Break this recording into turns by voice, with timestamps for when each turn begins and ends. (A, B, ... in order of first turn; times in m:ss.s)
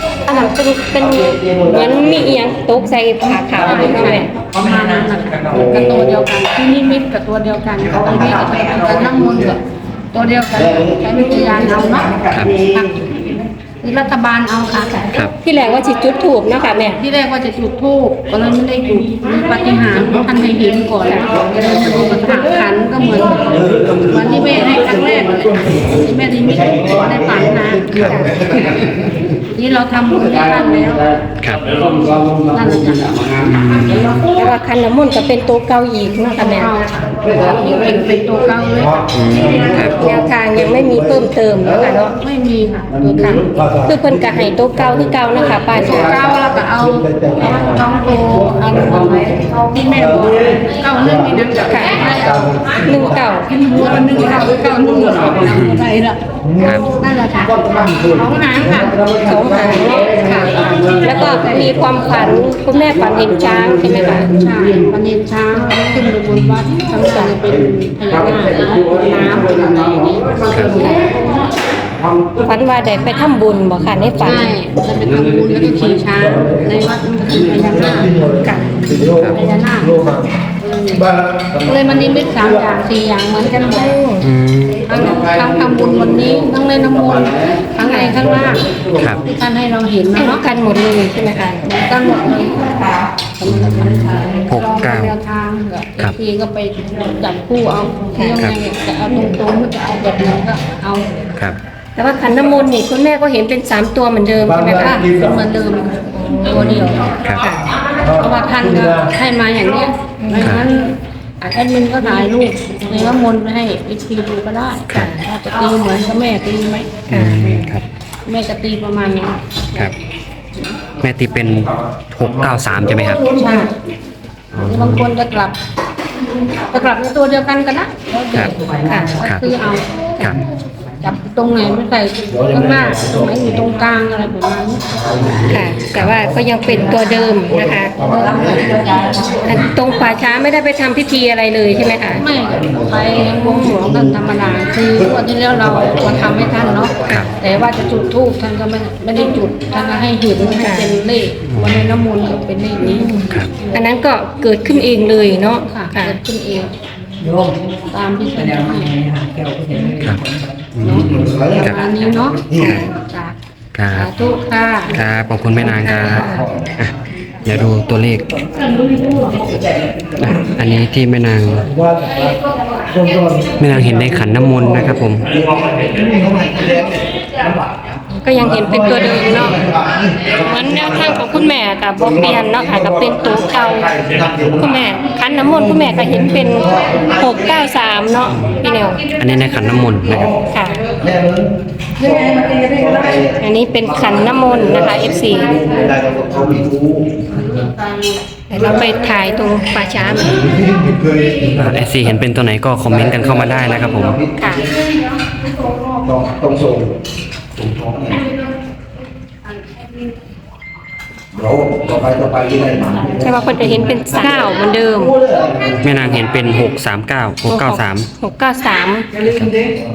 0:00.2-0:04.3 A
0:01.3-0:02.2 B
0:03.6-0:13.0 C
0:05.5-0:06.0 B
0:08.1-0:08.8 B
0:10.7-0:11.0 B
0:12.3-0:12.6 D
0:13.8-0:15.2 C
0:15.4-0:17.0 A
0:16.8-0:28.2 C
0:21.1-0:21.3 A
0:23.6-0:24.2 B
0:24.8-0:26.0 B
0:26.6-0:28.8 B
0:28.0-0:28.4 A
0:29.4-0:31.1 C
0:31.4-0:31.6 D
0:31.7-0:33.3 C
0:33.4-0:34.5 D
0:34.3-0:36.8 A
0:36.4-0:39.1 C
0:39.1-0:40.0 D
0:39.4-0:40.2 B
0:39.5-0:42.1 A
0:42.0-0:43.5 C
0:43.2-0:43.9 B
0:43.2-0:46.2 A
0:45.8-0:52.9 C
0:51.7-0:52.1 A
0:52.8-0:53.5 A
0:53.5-0:56.2 C
0:55.4-0:55.8 D
0:56.6-0:56.9 D
0:56.8-0:59.0 C
0:58.7-1:04.4 A
1:00.3-1:01.0 C
1:04.3-1:11.4 C
1:05.6-1:06.1 A
1:10.3-1:10.9 D
1:12.4-1:14.5 A
1:14.2-1:18.5 C
1:18.4-1:19.1 A
1:19.0-1:19.3 B
1:19.0-1:19.4 D
1:19.2-1:21.0 C
1:21.2-1:21.5 B
1:21.6-1:24.0 C
1:23.8-1:24.2 A
1:24.2-1:25.0 D
1:24.9-1:28.7 C
1:27.8-1:28.2 A
1:29.0-1:29.2 D
1:29.2-1:30.4 C
1:30.1-1:31.6 A
1:31.6-1:41.1 C
1:33.4-1:35.1 D
1:38.2-1:38.4 A
1:42.0-1:45.1 A
1:44.7-1:47.1 C
1:46.2-1:46.8 A
1:46.6-1:47.5 D
1:47.4-1:47.7 A
1:48.0-1:57.0 C
1:50.2-1:50.6 A
1:54.9-1:55.2 A
1:57.1-1:57.9 D
1:57.1-1:57.7 A
1:58.3-1:59.4 C
2:01.0-2:03.3 D
2:03.2-2:03.7 C
2:04.5-2:05.1 D
2:04.6-2:05.6 C
2:06.6-2:09.9 C
2:08.8-2:09.2 A
2:11.0-2:15.2 C
2:15.1-2:15.4 B
2:15.3-2:16.1 D
2:15.4-2:22.2 A
2:18.0-2:18.6 B
2:18.1-2:19.3 C
2:22.2-2:33.7 C
2:22.6-2:23.2 B
2:23.2-2:23.9 A
2:25.6-2:27.2 B
2:30.6-2:31.0 A
2:31.5-2:32.0 D
2:33.7-2:36.2 A
2:35.6-2:36.7 C
2:37.9-2:39.1 C
2:39.7-2:40.0 A
2:40.0-2:41.8 D
2:40.8-2:43.4 C
2:41.2-2:41.6 B
2:42.6-2:42.9 D
2:43.7-2:44.1 D
2:43.9-2:45.0 C
2:44.9-2:48.3 D
2:45.7-2:46.5 A
2:48.9-2:49.3 C
2:50.2-2:51.7 D
2:51.8-2:52.2 B
2:53.0-2:53.6 B
2:53.6-2:55.4 D
2:55.4-2:57.0 B
2:58.2-3:03.9 A
2:58.7-3:01.1 B
3:02.0-3:04.7 B
3:04.6-3:09.1 A
3:05.6-3:07.3 B
3:08.3-3:08.6 D
3:09.2-3:10.4 D
3:10.5-3:10.9 A
3:11.0-3:13.4 B
3:13.4-3:15.6 A
3:14.0-3:17.2 B
3:17.4-3:17.8 C
3:18.5-3:20.6 A
3:20.4-3:21.6 B
3:21.5-3:24.2 D
3:23.0-3:24.7 B
3:24.4-3:24.7 A
3:26.0-3:26.9 B
3:27.6-3:28.2 B
3:31.4-3:34.4 B
3:33.0-3:35.2 A
3:35.0-3:35.8 B
3:35.8-3:38.1 D
3:37.5-3:39.1 A
3:39.2-3:39.6 D